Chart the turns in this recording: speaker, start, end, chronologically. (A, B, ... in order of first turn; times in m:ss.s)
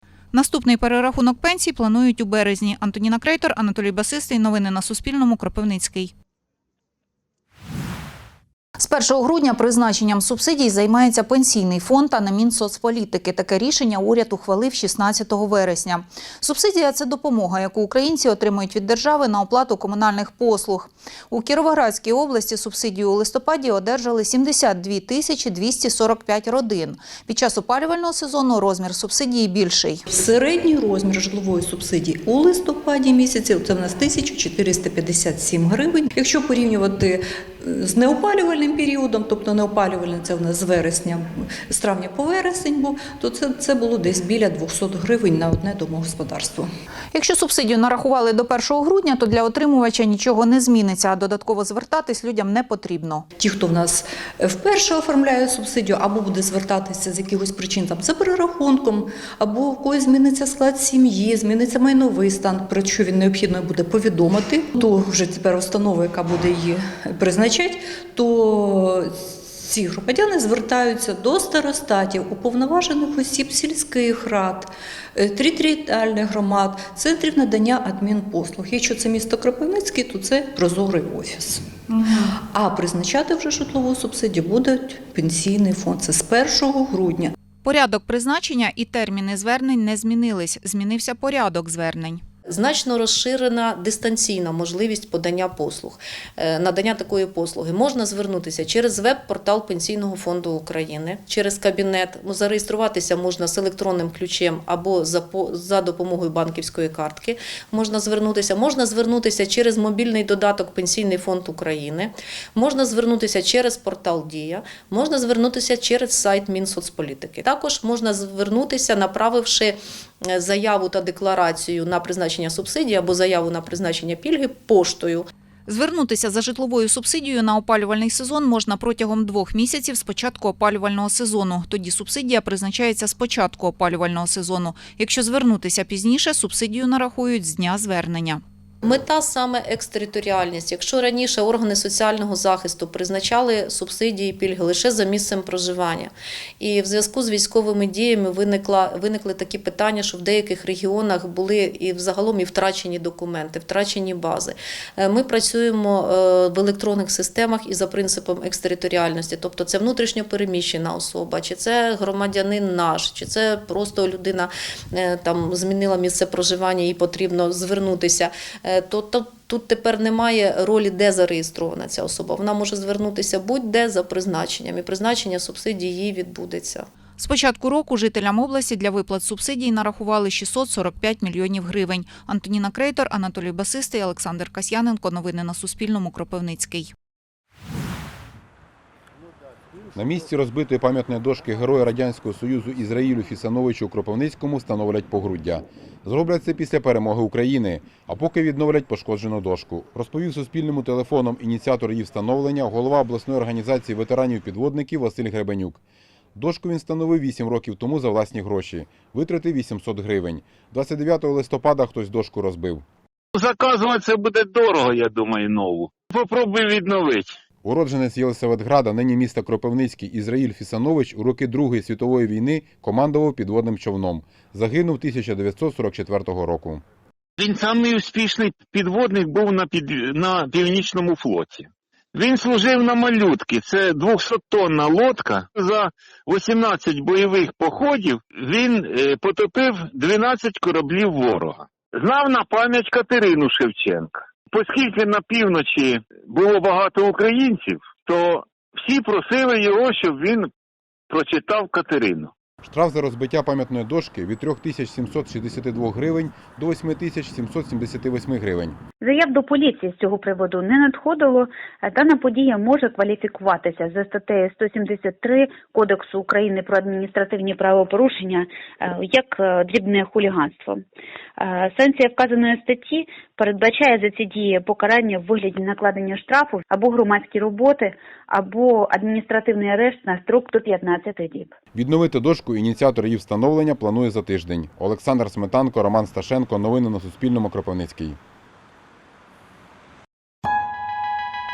0:00.3-0:06.1 A
0:08.8-0:30.0 A
0:30.1-0:46.7 B
0:47.1-0:53.3 A
0:53.4-1:21.7 B
1:22.2-1:27.3 B
1:27.6-1:32.2 A
1:32.5-2:05.3 C
2:05.7-2:18.4 A
2:18.8-2:56.9 C
2:57.2-3:06.9 A
3:10.0-3:25.8 D
3:26.4-3:32.8 D
3:33.4-3:37.3 E
3:37.6-3:46.8 D
3:47.4-4:10.5 E
4:11.1-4:12.3 E
4:12.6-4:18.8 D
4:19.0-4:30.8 F
4:31.4-4:41.5 F
4:41.7-4:48.2 D